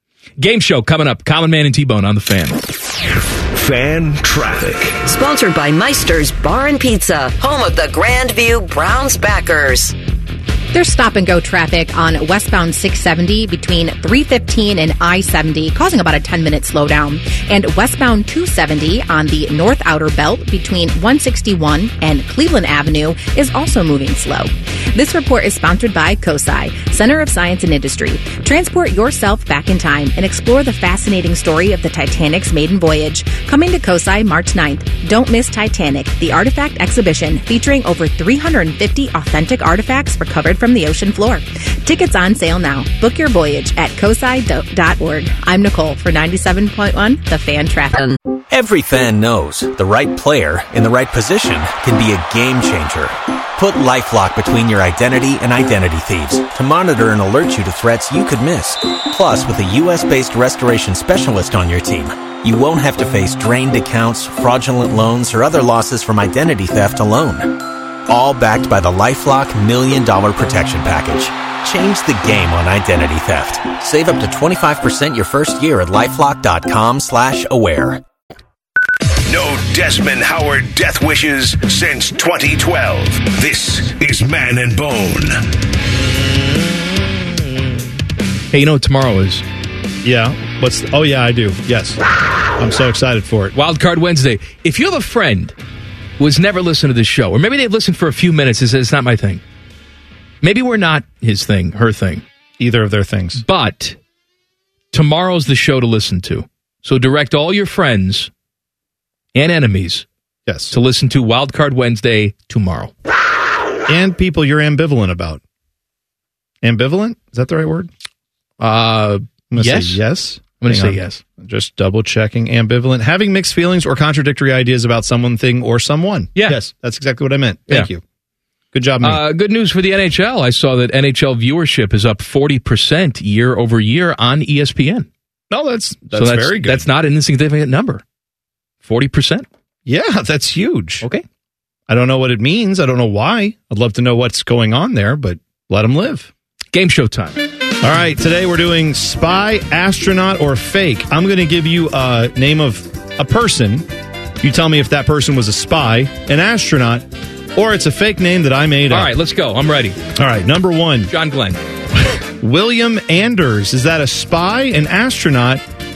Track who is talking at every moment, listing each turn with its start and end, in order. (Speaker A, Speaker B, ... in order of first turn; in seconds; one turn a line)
Speaker A: 0.4-2.6
Speaker B: 3.5-5.0
Speaker C: 5.0-9.9
Speaker D: 10.7-48.0
Speaker E: 48.5-78.0
Speaker B: 79.2-85.5
Speaker A: 88.5-89.4
Speaker F: 90.0-92.0
Speaker F: 92.5-93.5
Speaker A: 93.5-95.5
Speaker A: 96.2-99.4
Speaker A: 100.4-102.2
Speaker F: 102.6-103.4
Speaker A: 103.4-104.0
Speaker A: 104.9-108.3
Speaker A: 109.3-110.0
Speaker F: 110.5-110.7
Speaker A: 110.7-112.9
Speaker F: 113.9-115.4
Speaker F: 116.6-117.9
Speaker A: 118.6-120.0
Speaker F: 119.5-128.0
Speaker A: 120.6-121.2
Speaker F: 128.7-129.2
Speaker A: 129.0-135.1
Speaker F: 135.5-136.8
Speaker A: 136.1-138.0
Speaker A: 138.8-139.4
Speaker F: 139.8-141.1
Speaker F: 141.9-146.3
Speaker A: 146.7-147.4
Speaker F: 147.8-153.9
Speaker F: 154.4-159.1
Speaker A: 158.9-160.0
Speaker F: 160.2-161.1
Speaker A: 161.1-161.6
Speaker F: 162.4-165.6